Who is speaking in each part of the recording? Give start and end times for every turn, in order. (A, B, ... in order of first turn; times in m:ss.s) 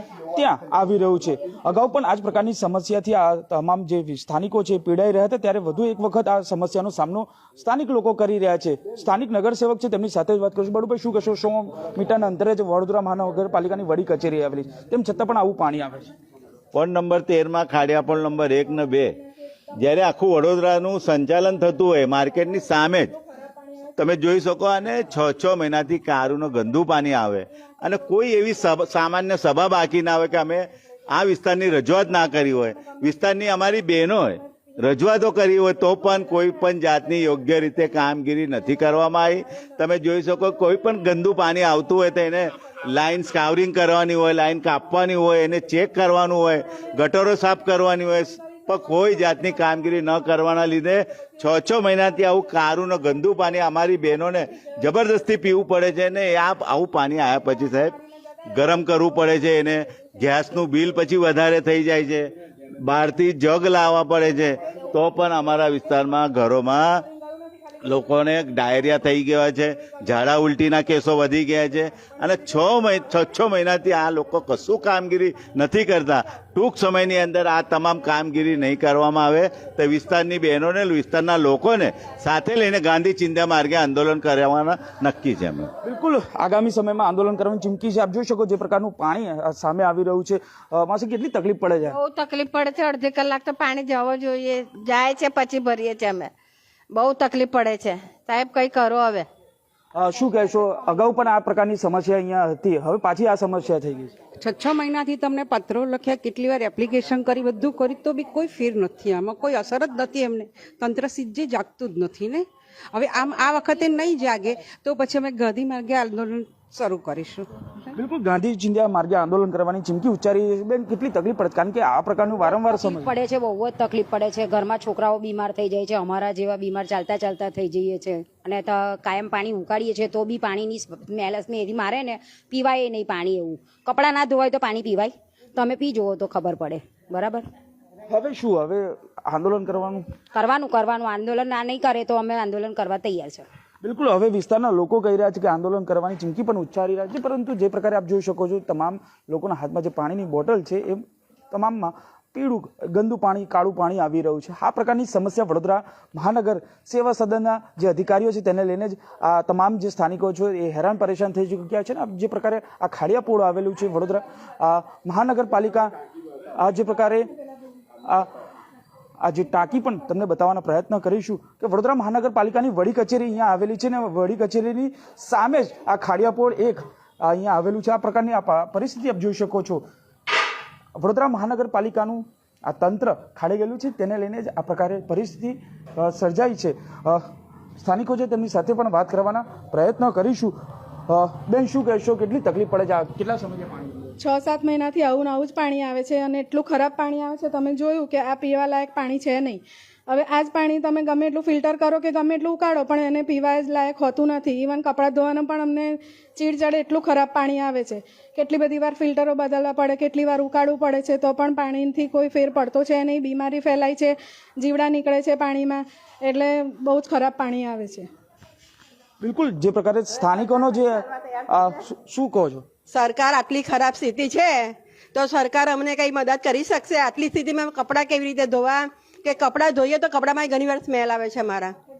0:00.3-0:16.1 A
0:16.7-0:19.2 B
0:19.8-0:23.2 B
0:24.0-0:58.0 B
0:58.5-1:02.3 B
1:02.8-1:07.1 B
1:07.8-1:25.7 B
1:25.8-1:32.0 A
1:31.9-1:36.3 C
1:36.9-1:39.3 C
1:40.0-1:44.1 A
1:44.4-1:57.5 D
1:57.9-2:03.1 A
2:02.8-2:17.5 E
2:18.1-2:20.0 A
2:20.4-2:23.5 E
2:23.8-2:45.9 A
2:46.6-2:47.3 A
2:49.2-2:59.8 A
3:01.0-3:07.3 A
3:07.8-3:10.6 A
3:11.1-3:14.2 A
3:14.3-3:19.6 F
3:20.1-3:38.0 F
3:39.2-3:42.6 A
3:42.9-3:51.8 G